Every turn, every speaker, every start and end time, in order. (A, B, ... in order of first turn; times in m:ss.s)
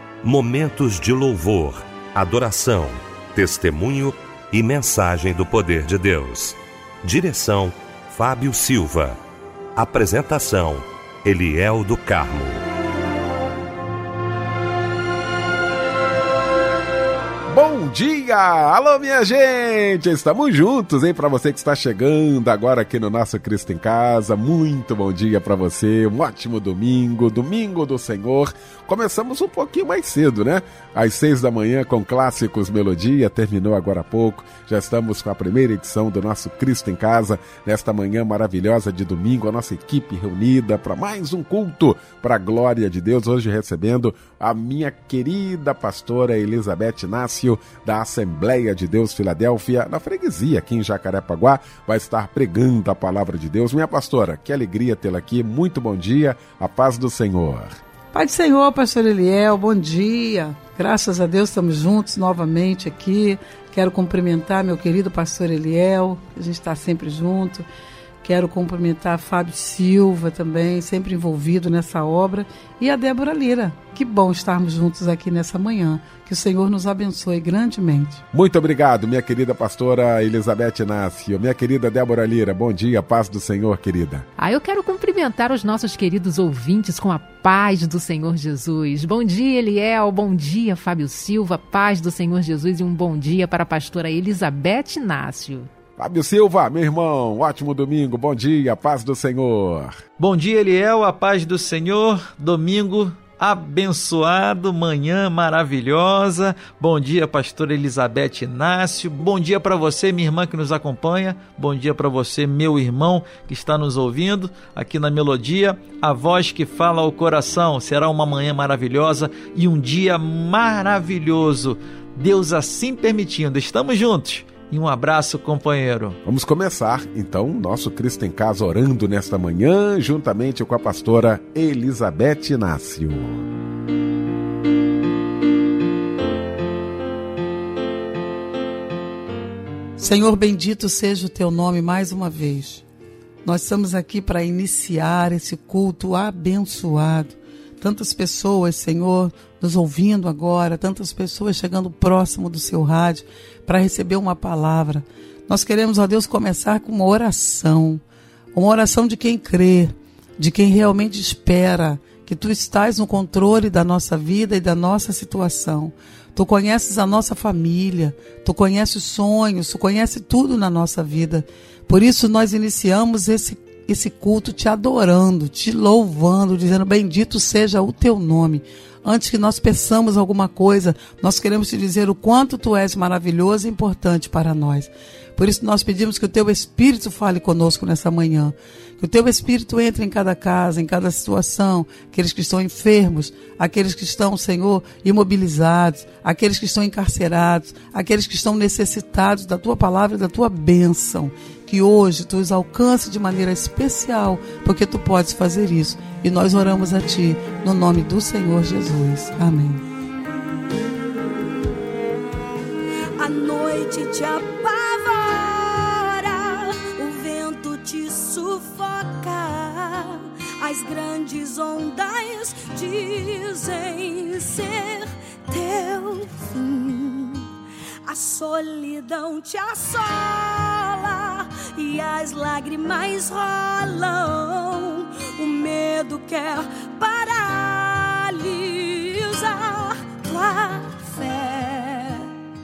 0:00.2-0:09.2 A
0:09.8-0:12.6 A
0:17.5-0:57.8 B
0:58.1-1:07.7 C
1:08.2-1:18.2 C
1:18.3-1:24.3 B
1:24.4-1:35.7 D
1:36.0-1:40.0 B
1:40.2-2:06.2 E
2:06.2-2:13.5 B
2:20.0-2:22.8 C
2:23.4-2:38.0 C
2:38.5-3:29.8 C
3:33.2-3:47.5 F
3:48.0-4:02.3 F